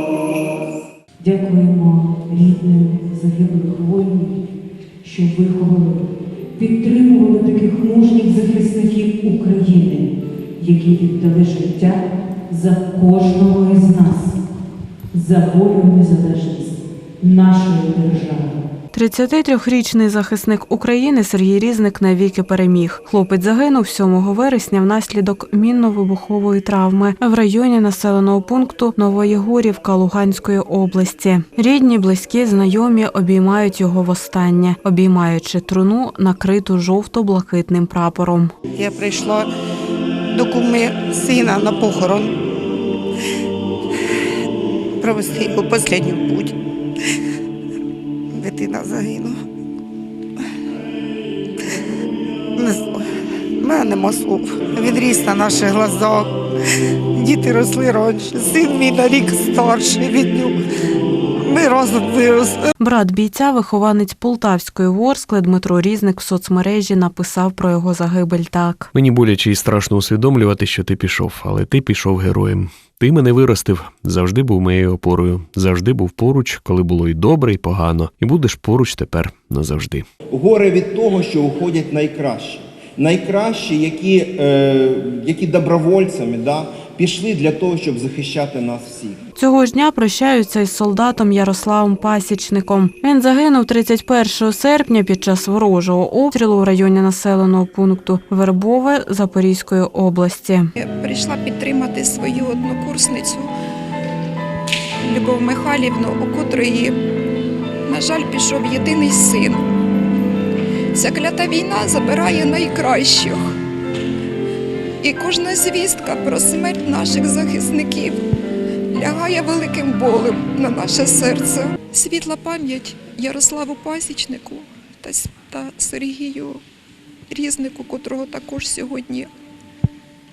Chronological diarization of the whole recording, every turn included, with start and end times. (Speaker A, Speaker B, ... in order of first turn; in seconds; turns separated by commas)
Speaker A: 1.2-4.3, Speaker A: 5.0-6.0, Speaker A: 6.5-14.4, Speaker A: 15.1-18.6, Speaker B: 18.9-38.5, Speaker C: 38.8-39.5, Speaker C: 40.3-42.3, Speaker C: 45.0-46.5, Speaker C: 48.3-49.4, Speaker C: 52.5-53.0, Speaker C: 53.6-56.3, Speaker C: 57.1-60.6, Speaker C: 61.4-62.7, Speaker B: 62.8-68.9, Speaker D: 68.9-80.0, Speaker E: 80.3-89.2, Speaker B: 89.3-100.7, Speaker F: 100.8-103.5, Speaker F: 105.0-107.0, Speaker F: 107.8-109.6, Speaker F: 110.9-113.5, Speaker F: 115.0-118.2, Speaker F: 118.9-126.6, Speaker F: 127.3-129.3